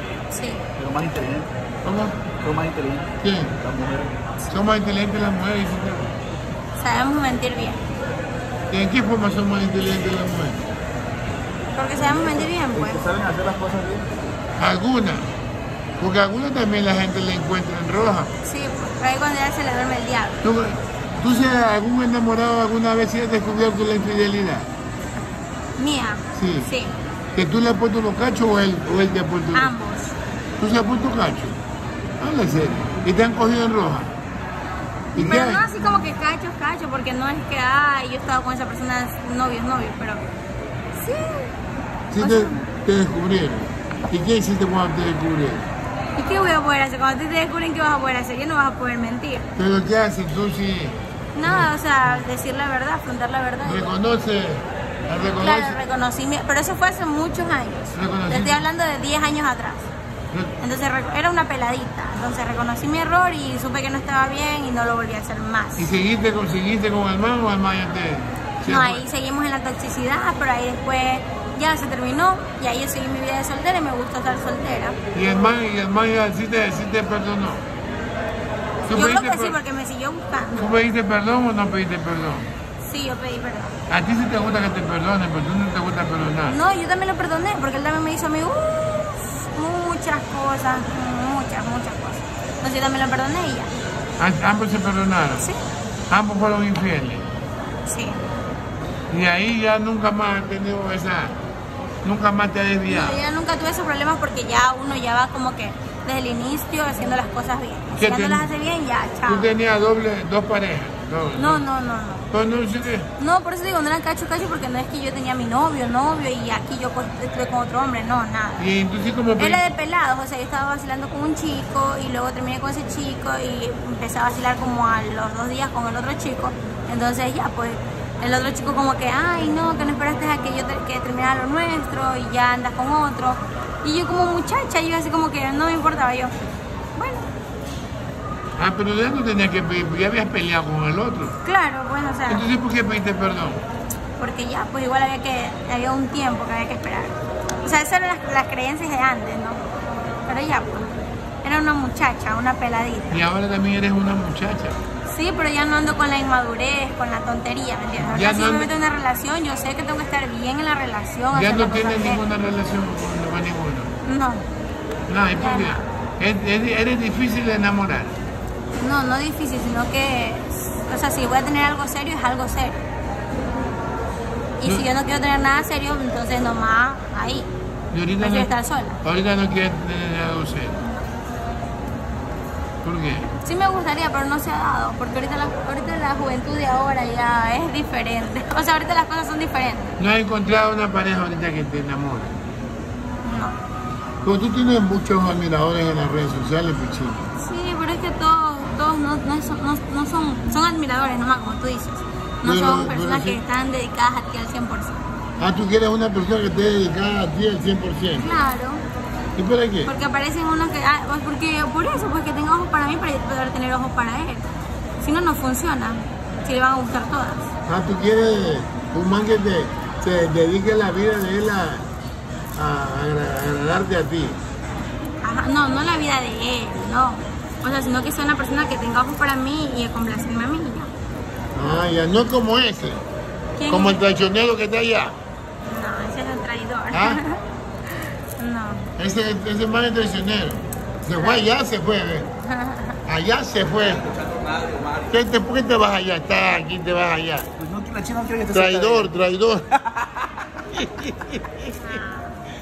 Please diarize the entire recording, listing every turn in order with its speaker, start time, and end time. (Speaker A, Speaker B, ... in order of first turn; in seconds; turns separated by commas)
Speaker A: 0.3-0.7, Speaker B: 0.8-1.5, Speaker C: 1.8-2.2, Speaker B: 2.4-4.2, Speaker C: 3.2-3.6, Speaker C: 4.5-6.1, Speaker A: 6.8-7.8, Speaker C: 8.7-10.7, Speaker A: 11.8-13.0, Speaker B: 12.0-14.2, Speaker C: 14.6-15.3, Speaker C: 16.0-18.3, Speaker A: 18.4-20.4, Speaker C: 20.4-24.7, Speaker A: 25.8-26.9, Speaker C: 26.3-26.7, Speaker C: 27.4-29.7, Speaker A: 29.5-30.2, Speaker C: 30.6-31.6, Speaker C: 32.2-34.1, Speaker C: 35.1-35.7, Speaker A: 35.1-40.2, Speaker A: 41.0-41.6, Speaker C: 42.1-45.7, Speaker A: 42.2-42.7, Speaker A: 46.2-49.5, Speaker C: 49.6-52.2, Speaker A: 51.4-53.9, Speaker C: 53.6-55.8, Speaker A: 55.4-59.9, Speaker C: 58.0-58.6, Speaker A: 60.6-65.9, Speaker C: 65.8-69.0, Speaker A: 68.7-75.0, Speaker C: 75.1-77.7, Speaker C: 78.9-79.6, Speaker A: 78.9-80.7, Speaker C: 80.6-82.5, Speaker A: 82.8-83.8, Speaker C: 83.9-86.6, Speaker A: 86.5-93.7, Speaker C: 94.2-95.5, Speaker C: 96.1-97.3, Speaker A: 97.9-98.3, Speaker C: 99.1-101.4, Speaker C: 102.0-103.2, Speaker A: 102.9-109.5, Speaker C: 107.9-108.5, Speaker C: 109.3-111.6, Speaker A: 111.3-112.3, Speaker C: 112.3-113.1, Speaker A: 113.2-118.7, Speaker C: 118.6-119.6, Speaker A: 119.4-136.3, Speaker A: 137.0-137.3, Speaker C: 138.6-141.4, Speaker A: 141.4-142.5, Speaker C: 142.3-143.6, Speaker A: 144.2-149.6, Speaker A: 150.3-150.9, Speaker A: 151.4-153.3, Speaker C: 153.1-154.8, Speaker A: 155.1-162.2, Speaker C: 158.0-158.7, Speaker C: 161.3-163.9, Speaker A: 164.0-164.5, Speaker C: 165.1-168.2, Speaker A: 165.3-165.8, Speaker A: 168.8-172.8, Speaker A: 174.6-177.5, Speaker C: 177.9-180.8, Speaker A: 178.2-179.0, Speaker C: 182.8-183.3, Speaker A: 183.4-190.0, Speaker C: 190.0-192.4, Speaker A: 193.2-193.6, Speaker C: 194.2-197.2, Speaker A: 197.4-205.0, Speaker C: 202.4-203.4, Speaker C: 205.4-208.3, Speaker A: 208.2-208.8, Speaker C: 209.4-209.9, Speaker A: 209.8-214.5, Speaker A: 215.0-217.5, Speaker C: 217.7-221.9, Speaker C: 222.6-224.4, Speaker A: 225.2-230.9, Speaker C: 231.6-233.0, Speaker A: 233.6-234.1, Speaker C: 233.7-235.2, Speaker A: 235.6-237.4, Speaker C: 236.9-237.2, Speaker A: 238.0-238.9, Speaker C: 239.0-242.3, Speaker A: 241.2-241.5, Speaker A: 242.4-243.0, Speaker C: 243.1-244.1, Speaker C: 245.1-247.5, Speaker B: 247.6-249.1, Speaker C: 248.5-249.8, Speaker C: 250.7-252.0, Speaker A: 251.6-252.4